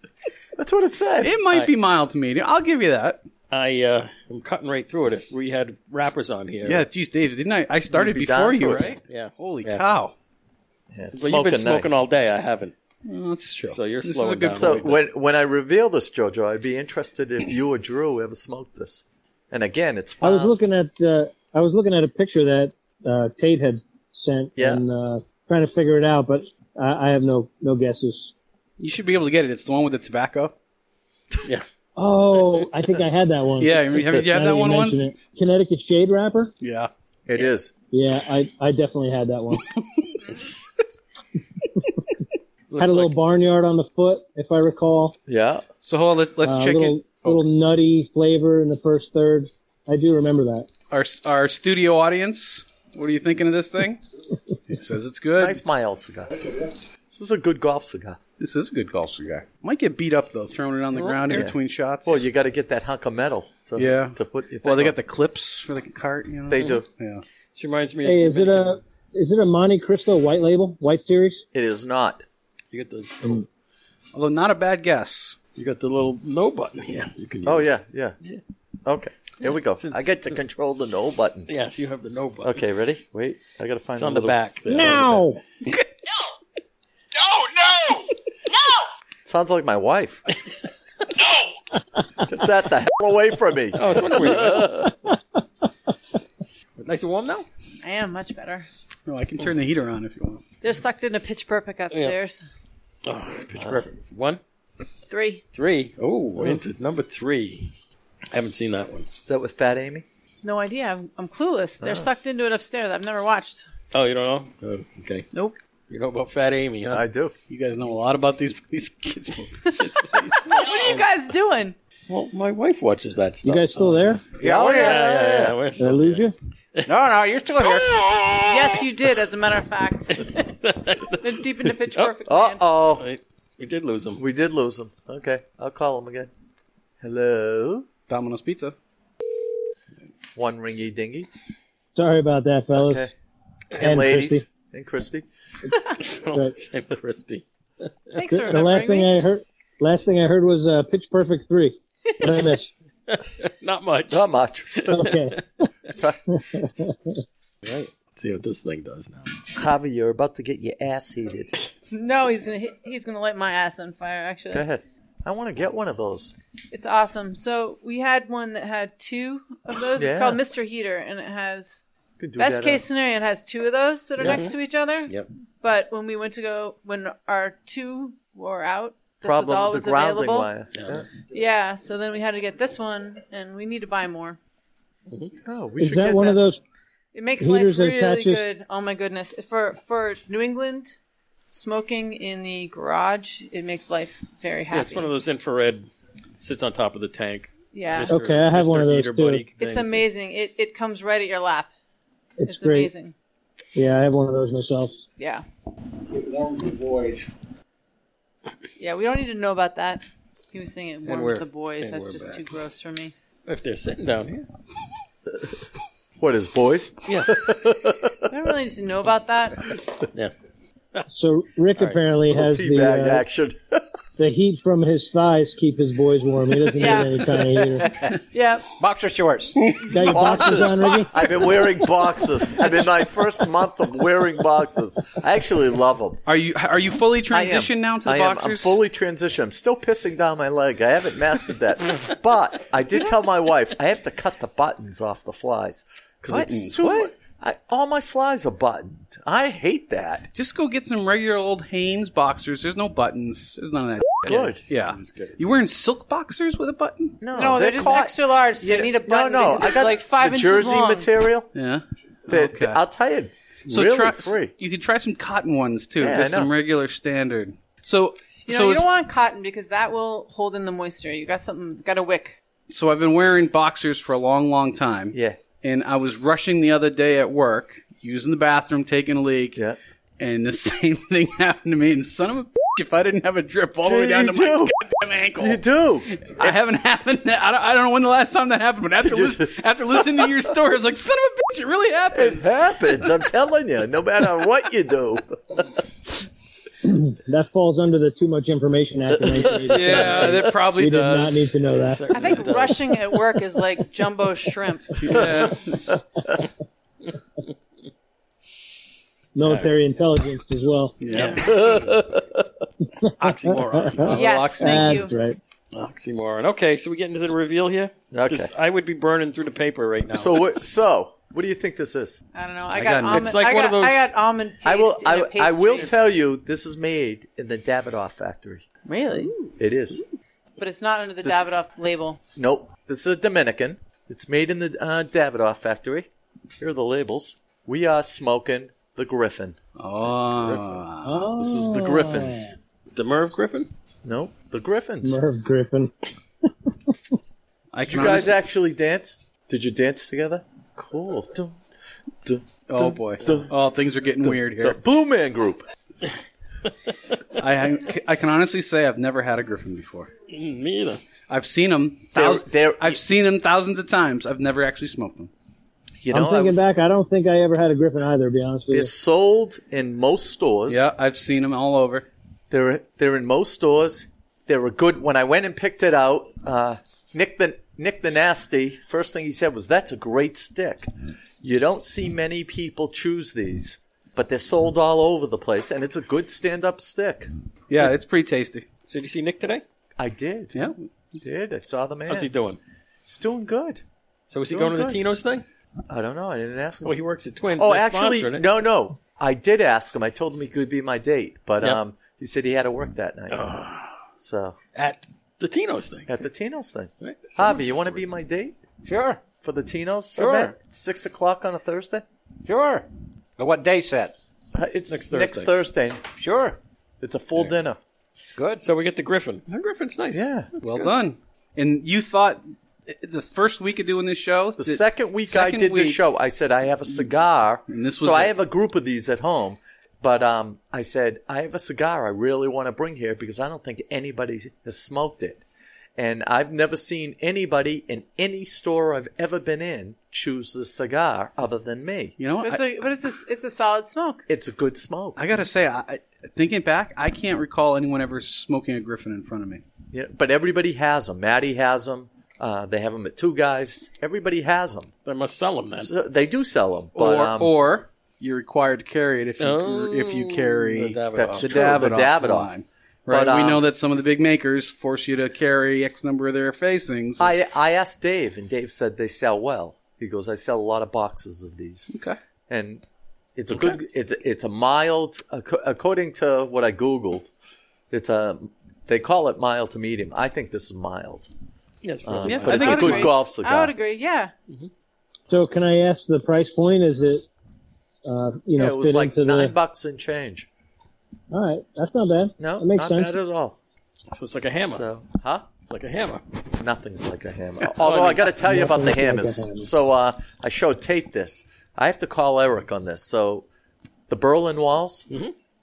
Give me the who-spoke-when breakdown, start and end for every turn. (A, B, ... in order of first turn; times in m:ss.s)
0:00.6-0:01.4 A
0:01.2-0:03.2 B
0:03.5-0:06.9 C
0:06.6-0:10.1 B
0:07.9-0:08.9 A
0:09.0-0:09.8 C
0:10.9-0:12.0 A
0:11.1-0:12.7 C
0:13.0-0:14.9 B
0:13.7-0:15.0 C
0:14.5-0:20.6 A
0:20.2-0:28.3 D
0:24.6-0:24.8 A
0:28.8-0:30.5 B
0:32.0-0:36.5 D
0:33.6-0:35.1 B
0:36.6-0:36.9 B
0:37.3-0:37.7 A
0:37.9-0:39.6 D
0:42.7-0:43.1 C
0:42.8-0:45.2 D
0:45.3-0:45.6 A
0:45.8-0:47.4 B
0:46.4-0:50.7 D
0:50.9-0:54.0 B
0:54.7-0:55.6 B
0:55.4-0:58.2 A
0:58.4-1:02.2 B
1:01.3-1:04.9 A
1:03.8-1:07.2 B
1:06.5-1:06.8 A
1:07.5-1:08.8 C
1:08.0-1:11.4 D
1:11.5-1:12.2 A
1:12.7-1:13.4 C
1:14.1-1:15.4 B
1:15.6-1:18.4 C
1:17.4-1:18.1 A
1:18.8-1:21.5 A
1:19.8-1:20.2 C
1:21.5-1:22.6 C
1:22.4-1:24.4 A
1:24.0-1:25.2 C
1:24.7-1:25.4 D
1:27.2-1:28.1 C
1:29.2-1:30.2 A
1:32.2-1:34.8 A
1:33.8-1:35.0 C
1:36.8-1:37.5 C
1:37.8-1:38.6 E
1:39.1-1:40.4 B
1:40.6-1:42.4 E
1:43.0-1:44.4 C
1:43.5-1:43.8 A
1:45.1-1:45.4 E
1:45.5-1:47.7 C
1:48.3-1:49.1 C
1:49.2-1:50.0 A
1:50.4-1:53.6 E
1:53.9-1:55.3 C
1:55.9-1:57.0 C
1:56.9-1:57.3 A
1:57.5-2:00.6 B
1:59.8-2:01.0 C
2:00.5-2:01.8 E
2:02.1-2:06.9 C
2:03.4-2:04.2 D
2:04.4-2:05.0 F
2:04.4-2:05.6 A
2:05.8-2:06.3 D
2:06.9-2:07.9 F
2:07.6-2:08.8 C
2:08.4-2:10.3 E
2:10.2-2:12.1 C
2:11.2-2:12.6 E
2:12.2-2:13.0 A
2:13.0-2:14.2 C
2:14.2-2:16.3 A
2:17.0-2:17.9 A
2:18.1-2:18.7 B
2:20.3-2:21.3 A
2:21.9-2:23.1 D
2:22.7-2:23.1 A
2:23.7-2:25.2 A
2:23.8-2:24.4 D
2:26.0-2:28.2 C
2:28.1-2:29.1 E
2:28.3-2:32.7 D
2:33.1-2:35.4 C
2:34.1-2:35.0 A
2:34.9-2:35.7 D
2:36.3-2:37.2 D
2:37.6-2:39.4 C
2:39.5-2:41.5 A
2:41.9-2:44.6 E
2:44.5-2:46.3 A
2:46.7-2:51.8 E
2:50.0-2:50.4 A
2:52.2-2:52.8 A
2:52.4-3:00.5 E
2:54.2-2:54.5 C
2:59.2-3:01.0 A
3:00.7-3:01.0 C
3:01.3-3:04.4 E
3:05.4-3:06.4 A
3:05.8-3:06.6 D
3:07.1-3:11.0 E
3:07.4-3:08.4 D
3:11.5-3:15.1 E
3:14.7-3:15.9 C
3:16.4-3:20.0 C
3:17.7-3:18.1 E
3:18.1-3:19.4 D
3:19.6-3:21.7 E
3:22.4-3:22.9 D
3:22.4-3:23.1 E
3:23.7-3:25.0 D
3:25.2-3:25.4 E
3:28.8-3:33.1 E
3:31.0-3:32.4 C
3:33.4-3:34.4 C
3:36.2-3:38.2 A
3:37.1-3:37.4 C
3:38.3-3:39.7 E
3:41.1-3:43.2 D
3:42.3-3:43.8 A
3:44.2-3:47.9 D
3:46.7-3:47.2 E
3:48.3-3:48.7 E
3:48.8-3:49.8 F
3:49.6-3:50.2 B
3:49.8-3:51.2 D
3:50.0-3:56.2 A
3:56.2-3:58.8 B
3:57.3-4:10.3 A
4:06.3-4:07.1 B
4:10.3-4:17.2 B
4:14.2-4:14.6 A
4:14.8-4:15.4 C
4:17.2-4:21.5 A
4:17.3-4:21.1 E
4:21.5-4:22.8 B
4:22.3-4:24.5 A
4:23.7-4:28.9 B
4:26.0-4:26.5 A
4:28.5-4:32.4 E
4:32.7-4:39.6 B
4:35.1-4:35.4 A
4:40.2-4:52.7 B
4:43.8-4:44.7 A
4:45.4-4:46.1 A
4:49.0-4:49.5 A
4:52.1-4:55.6 A
4:56.8-5:02.0 D
4:59.7-5:01.6 B
4:59.9-5:00.2 C
5:01.8-5:03.2 C
5:02.1-5:05.5 E
5:05.0-5:06.0 B
5:09.3-5:11.0 D
5:09.4-5:09.7 C
5:11.0-5:11.5 B
5:11.1-5:12.4 C
5:13.0-5:14.1 D
5:13.2-5:14.2 C
5:14.1-5:15.0 B
5:14.1-5:15.1 E
5:14.6-5:15.4 D
5:15.7-5:20.4 C
5:18.1-5:18.5 A
5:20.1-5:22.2 A
5:22.3-5:25.9 E
5:22.7-5:23.3 B
5:23.1-5:24.1 C
5:24.6-5:28.6 A
5:28.8-5:29.5 E
5:29.6-5:30.0 A
5:30.6-5:32.2 E
5:32.3-5:39.6 A
5:39.8-5:41.3 B
5:40.4-5:40.8 C
5:41.0-5:42.5 D
5:41.4-5:42.5 A
5:42.9-5:43.7 C
5:44.0-5:45.2 A
5:45.0-5:45.9 D
5:47.7-5:48.4 B
5:47.8-5:51.6 A
5:52.2-5:53.5 A
5:52.7-5:54.8 B
5:54.2-5:55.6 A
5:57.4-6:00.1 B
6:00.3-6:01.0 C
6:01.3-6:05.3 B
6:02.1-6:03.0 A
6:06.0-6:06.6 A
6:06.1-6:08.9 D
6:08.7-6:10.9 A
6:10.7-6:12.1 B
6:12.5-6:20.9 A
6:21.4-6:27.3 A
6:27.7-6:28.6 B
6:28.9-6:29.6 C
6:30.0-6:32.3 A
6:32.1-6:32.6 C
6:33.0-6:33.8 A
6:34.3-6:35.4 C
6:34.5-6:35.0 A
6:35.9-6:36.9 A
6:36.8-6:38.4 C
6:37.6-6:43.6 A
6:43.3-6:43.9 C
6:44.2-6:44.6 A
6:44.7-6:46.2 C
6:46.1-6:48.6 A
6:47.0-6:48.0 C
6:48.8-6:49.2 F
6:49.4-6:52.0 A
6:50.2-6:50.5 F
6:52.4-6:52.9 F
6:53.4-6:54.2 F
6:54.5-6:56.0 A
6:54.9-6:55.5 C
6:56.2-6:56.6 F
6:57.0-6:57.8 A
6:58.3-6:58.6 F
6:58.6-7:00.9 C
7:00.1-7:00.5 A
7:00.6-7:06.0 B
7:04.6-7:15.4 A
7:07.7-7:08.3 B
7:16.0-7:22.2 A
7:22.2-7:22.6 B
7:22.4-7:24.2 E
7:24.3-7:25.2 A
7:25.2-7:29.6 B
7:29.9-7:34.9 A
7:35.0-7:35.9 C
7:35.8-7:37.5 A
7:36.9-7:47.3 B
7:39.4-7:41.9 C
7:41.2-7:42.5 A
7:43.1-7:43.6 A
7:47.2-7:51.9 A
7:51.9-7:52.2 B
7:52.5-7:52.8 A
7:53.4-7:57.3 A
7:57.9-8:01.3 A
8:01.8-8:03.1 C
8:02.0-8:03.7 A
8:02.3-8:03.2 B
8:02.4-8:04.3 E
8:05.3-8:07.2 D
8:08.0-8:09.5 D
8:08.6-8:10.5 A
8:11.3-8:13.2 D
8:12.4-8:13.6 A
8:14.1-8:14.8 C
8:14.6-8:15.5 A
8:15.6-8:16.2 C
8:16.5-8:23.5 A
8:17.6-8:18.3 C
8:18.4-8:19.7 D
8:24.1-8:25.1 A